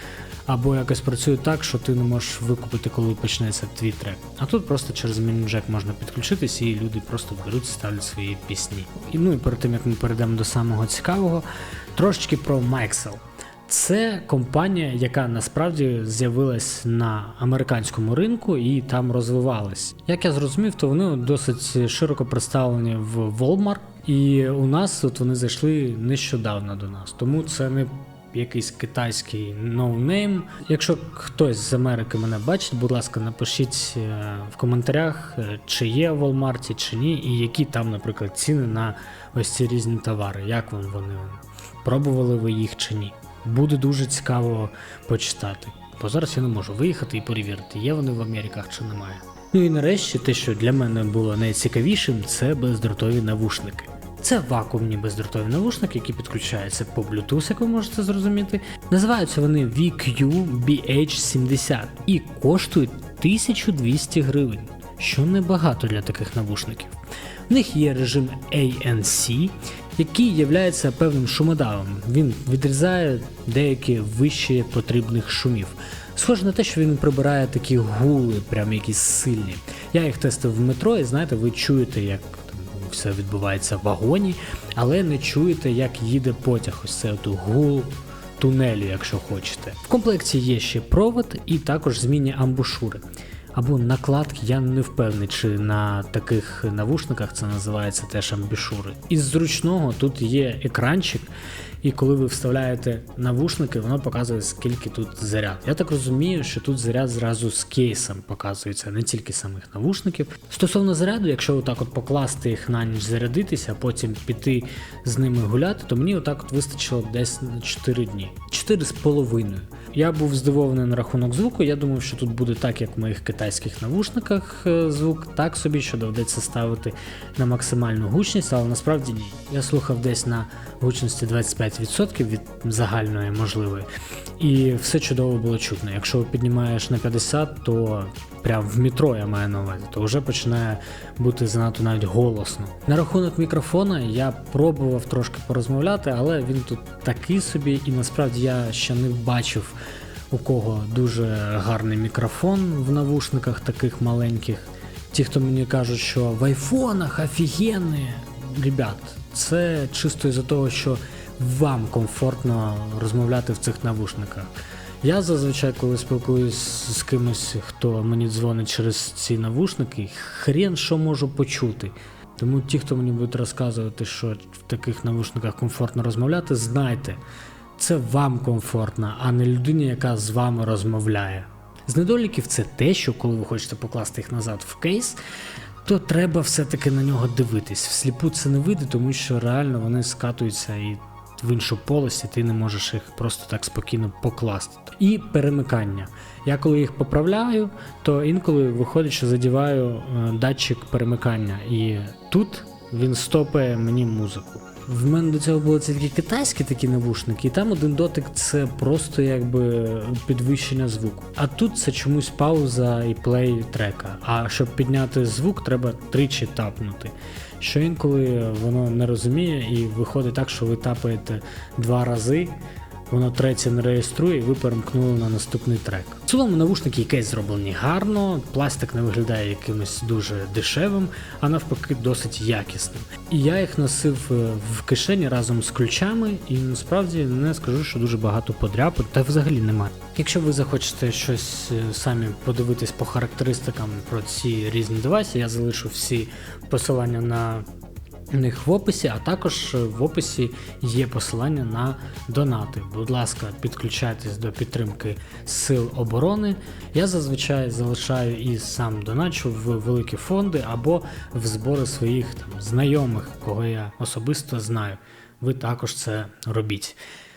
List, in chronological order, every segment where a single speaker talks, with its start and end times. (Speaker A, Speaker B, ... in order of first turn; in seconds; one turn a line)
Speaker A: 0.5-67.0
Speaker A: 67.5-93.0
Speaker A: 93.5-133.9
Speaker A: 134.4-149.8
Speaker A: 150.3-164.5
Speaker A: 165.0-177.2
Speaker A: 177.8-185.2
Speaker A: 185.8-247.7
Speaker A: 248.3-267.0